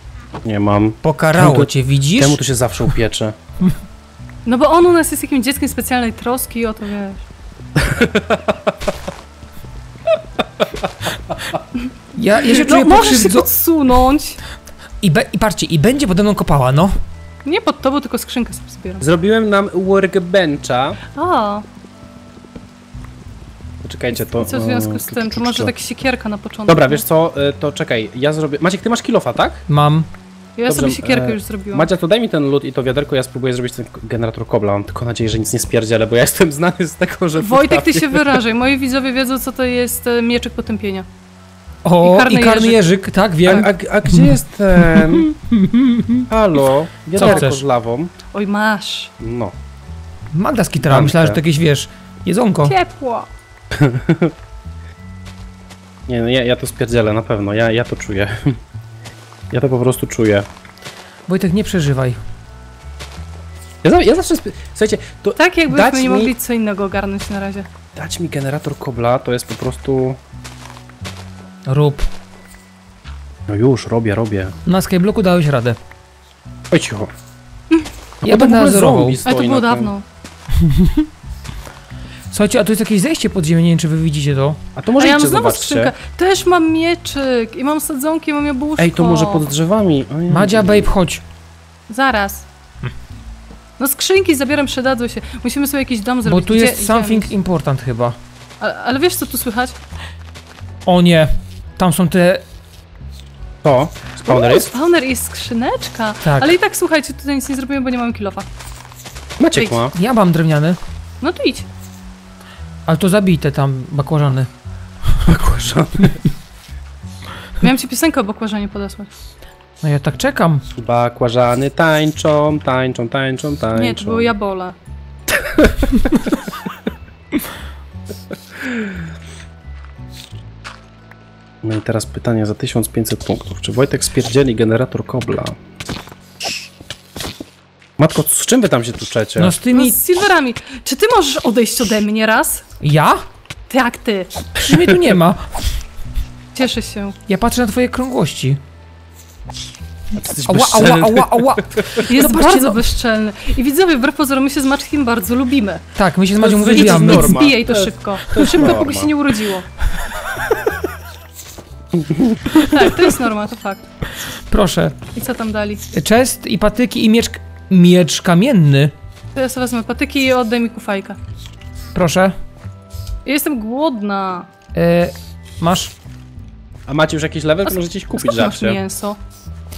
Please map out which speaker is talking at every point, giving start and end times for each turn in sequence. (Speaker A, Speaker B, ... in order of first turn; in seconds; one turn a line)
Speaker A: 0.4-3.4
Speaker B: 1.0-2.4
Speaker C: 4.5-7.2
Speaker A: 7.8-8.9
Speaker B: 12.2-13.5
Speaker C: 12.5-14.4
Speaker B: 15.0-16.9
Speaker C: 17.4-19.0
Speaker A: 19.0-21.0
Speaker C: 21.1-21.6
Speaker A: 23.8-25.7
Speaker C: 24.3-27.0
Speaker A: 26.7-29.6
Speaker B: 29.7-30.1
Speaker C: 30.6-31.9
Speaker A: 30.7-38.4
Speaker C: 37.4-41.1
Speaker B: 41.9-46.3
Speaker C: 42.0-42.8
Speaker A: 43.4-45.3
Speaker A: 46.3-48.1
Speaker C: 47.2-47.4
Speaker B: 47.2-47.6
Speaker C: 48.3-49.1
Speaker A: 49.2-49.5
Speaker B: 50.3-52.8
Speaker A: 50.8-51.4
Speaker C: 52.6-53.3
Speaker A: 53.7-54.3
Speaker A: 56.1-58.6
Speaker A: 59.5-60.5
Speaker B: 61.3-62.2
Speaker A: 63.8-66.3
Speaker C: 65.4-67.7
Speaker A: 67.9-70.2
Speaker B: 71.7-72.1
Speaker A: 73.5-74.5
Speaker B: 74.7-75.8
Speaker A: 76.7-77.1
Speaker A: 78.2-79.9
Speaker B: 78.2-79.2
Speaker C: 79.2-80.0
Speaker B: 80.6-81.1
Speaker B: 82.3-84.6
Speaker A: 84.8-85.9
Speaker C: 85.0-89.5
Speaker A: 88.8-90.9
Speaker B: 90.3-91.2
Speaker C: 91.9-92.5
Speaker C: 93.8-97.3
Speaker B: 96.2-98.2
Speaker C: 98.6-99.8
Speaker B: 100.9-102.4
Speaker A: 103.6-104.7
Speaker C: 104.2-108.5
Speaker B: 106.2-106.5
Speaker A: 109.4-109.9
Speaker C: 109.6-109.8
Speaker B: 109.9-110.8
Speaker C: 111.2-111.7
Speaker B: 112.9-114.5
Speaker A: 115.2-116.2
Speaker C: 117.6-119.1
Speaker B: 119.8-120.7
Speaker A: 120.7-124.3
Speaker C: 123.8-124.8
Speaker A: 125.3-126.3
Speaker A: 128.6-129.0
Speaker A: 131.6-135.6
Speaker A: 138.0-139.6
Speaker B: 139.4-140.0
Speaker C: 139.7-142.7
Speaker B: 142.8-143.2
Speaker C: 143.7-144.4
Speaker B: 144.6-145.5
Speaker A: 144.7-145.2
Speaker C: 146.5-147.2
Speaker B: 147.3-148.6
Speaker A: 150.2-152.6
Speaker B: 150.5-152.8
Speaker C: 152.1-155.8
Speaker B: 155.9-157.6
Speaker A: 156.4-159.1
Speaker C: 156.7-159.7
Speaker A: 161.9-162.6
Speaker C: 162.6-163.9
Speaker B: 164.5-165.0
Speaker C: 165.2-165.8
Speaker B: 165.9-168.9
Speaker C: 169.3-171.2
Speaker B: 171.9-172.3
Speaker C: 173.2-174.5
Speaker B: 174.8-175.9
Speaker A: 176.9-178.8
Speaker C: 177.7-179.2